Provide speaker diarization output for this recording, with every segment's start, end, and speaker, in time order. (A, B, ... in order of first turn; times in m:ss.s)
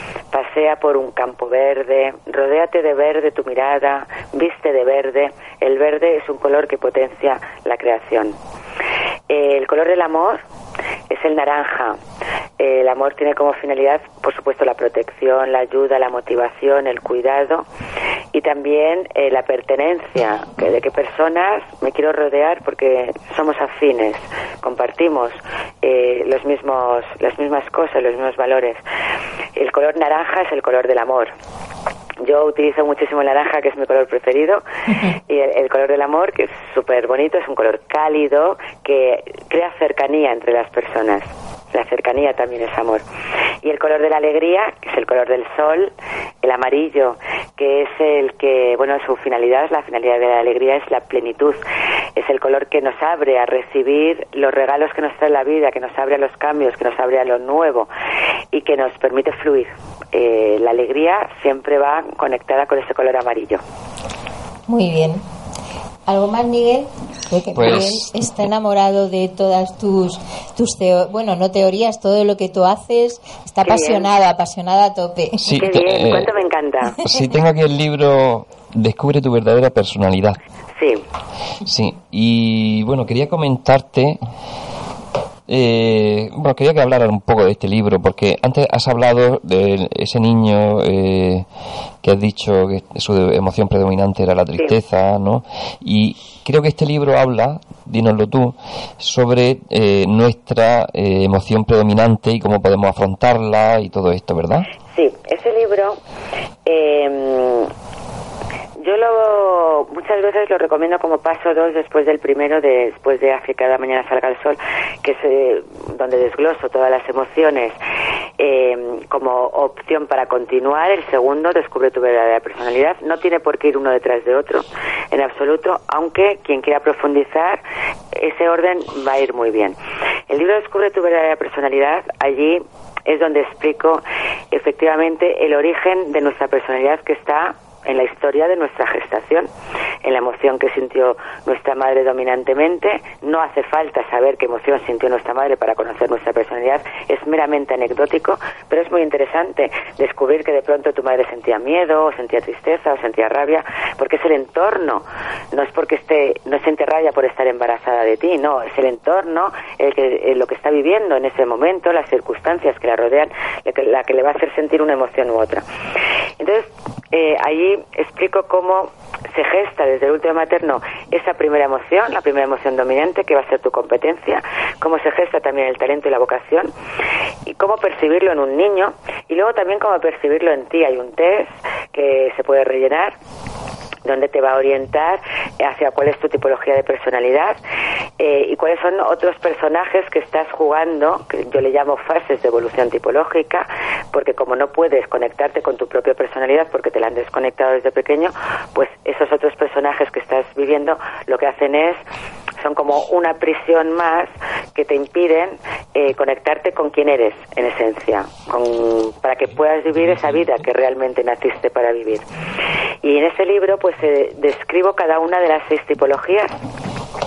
0:00.3-0:08.4 A
0:09.3-0:10.4 A
0:11.1-0:12.0 A
0:12.6-0:17.6 A
0:18.3-0:28.8 A
0:29.6-0:31.3 A
0:32.2-0:34.6 A
0:35.3-0:43.0 A
0:43.6-0:51.6 A
0:52.2-0:57.9 A
0:58.5-1:03.6 A
1:04.7-1:05.2 B
1:06.1-1:15.6 B
1:07.5-1:08.1 C
1:13.6-1:14.1 A
1:15.4-1:16.3 C
1:15.6-1:17.0 A
1:17.0-1:20.4 C
1:20.8-1:21.0 A
1:21.6-1:24.2 C
1:25.5-1:31.4 C
1:32.0-1:44.7 C
1:44.9-1:46.0 A
1:46.6-1:47.7 A
1:48.8-1:57.8 A
1:58.4-2:07.6 A
2:08.1-2:09.8 A
2:10.3-2:19.5 A
2:20.0-2:45.6 A
2:46.4-2:56.7 A
2:57.5-3:03.1 A
3:04.0-3:07.6 A
3:08.2-3:22.0 A
3:22.6-3:32.2 A
3:33.0-3:36.5 A